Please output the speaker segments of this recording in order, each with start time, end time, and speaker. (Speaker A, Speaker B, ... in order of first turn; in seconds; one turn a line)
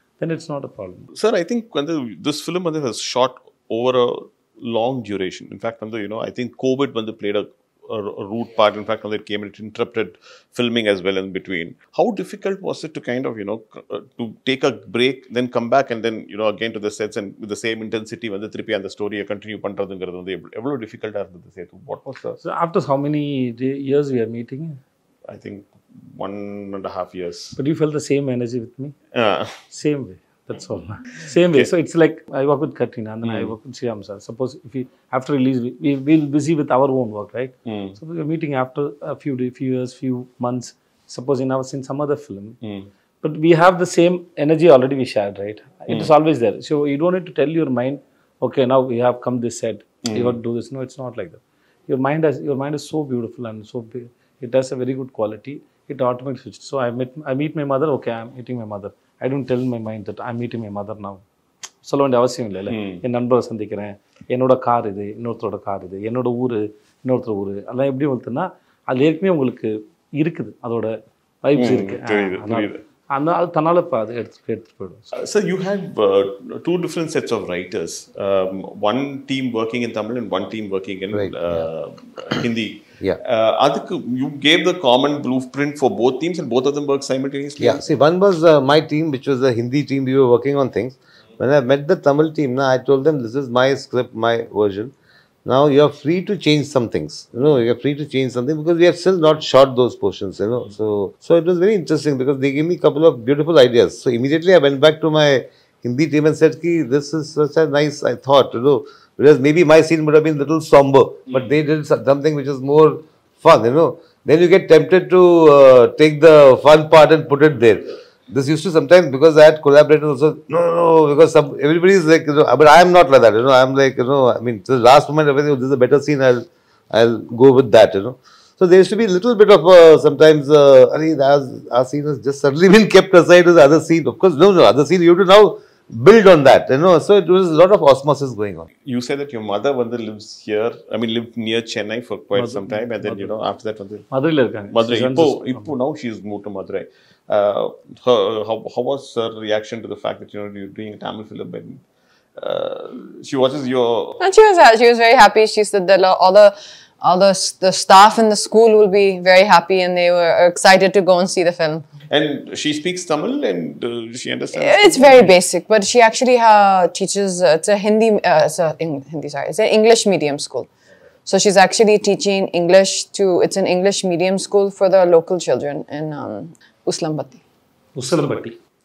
Speaker A: 0.2-1.1
Speaker B: 1.1-22.4
Speaker A: 22.4-24.8
Speaker B: 25.3-27.6
Speaker A: 27.6-28.9
Speaker B: 29.1-29.6
Speaker A: 29.7-42.6
Speaker B: 33.2-33.5
Speaker B: 37.6-38.0
Speaker B: 42.6-42.9
Speaker A: 43.2-61.2
Speaker B: 50.0-50.4
Speaker A: 61.8-75.1
Speaker B: 62.7-63.0
Speaker B: 71.5-72.8
Speaker B: 75.1-87.8
Speaker C: 81.1-81.7
Speaker C: 87.6-94.9
Speaker C: 95.4-138.7
Speaker B: 138.8-144.1
Speaker A: 142.3-143.3
Speaker A: 144.1-145.7
Speaker B: 144.7-151.8
Speaker B: 152.4-154.2
Speaker D: 154.2-161.8
Speaker B: 162.1-165.3
Speaker D: 164.5-170.7
Speaker D: 171.2-177.4
Speaker A: 177.9-178.6